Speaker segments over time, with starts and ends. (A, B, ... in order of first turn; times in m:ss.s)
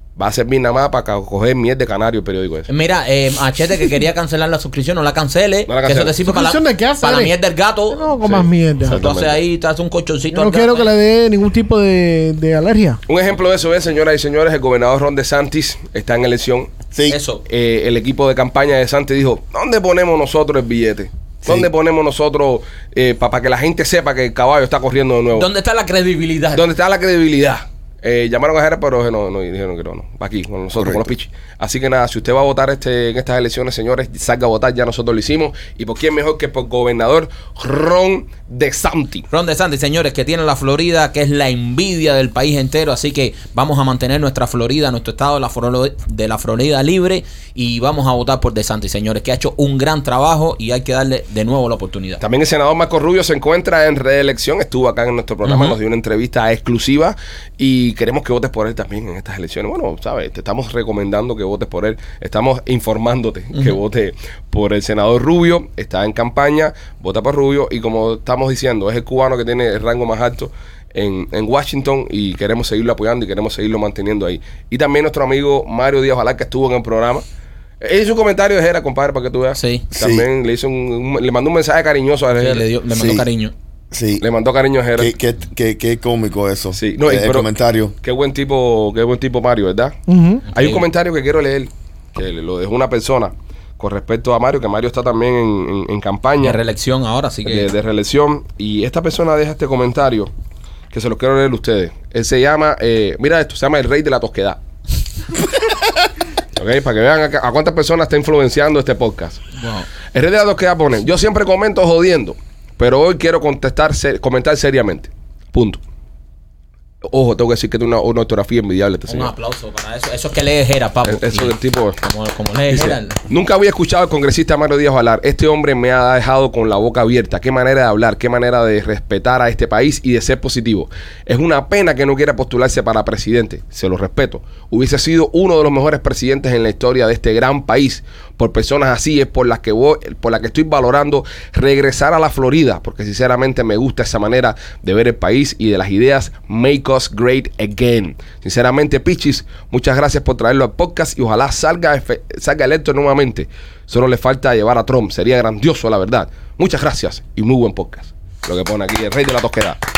0:00.2-0:02.7 A
0:02.7-0:08.2 B
0:05.7-0:06.1 A
0:06.2-0:07.3 C
0:07.9-0:09.0 C
0:08.2-0:09.4 A
0:08.9-0:10.9 B
0:10.3-0:13.0 C
0:13.1-0:16.7 A
0:16.9-0:17.2 D
0:17.1-0:17.4 B
0:17.4-0:25.5 A
0:21.4-0:21.7 D
0:25.3-0:26.6 B
0:26.5-0:39.3 A
0:30.8-0:31.1 D
0:39.3-0:52.2 B
0:52.2-1:17.2 A
0:55.4-0:55.8 B
1:03.5-1:03.8 B
1:17.8-1:22.6 A
1:19.6-1:19.8 B
1:19.9-1:20.2 D
1:22.4-1:23.5 B
1:22.9-1:23.3 D
1:23.9-1:24.2 D
1:24.2-1:25.1 A
1:25.0-1:27.9 D
1:26.7-1:30.0 A
1:30.1-1:30.4 C
1:30.5-1:30.8 B
1:30.5-1:36.6 A
1:36.4-1:37.7 B
1:37.4-1:40.3 A
1:40.9-1:44.6 A
1:46.6-1:49.4 A
1:49.6-1:49.9 B
1:50.1-1:55.8 A
1:57.0-1:59.3 A
1:59.1-2:03.2 B
2:01.0-2:02.0 A
2:02.7-2:39.8 A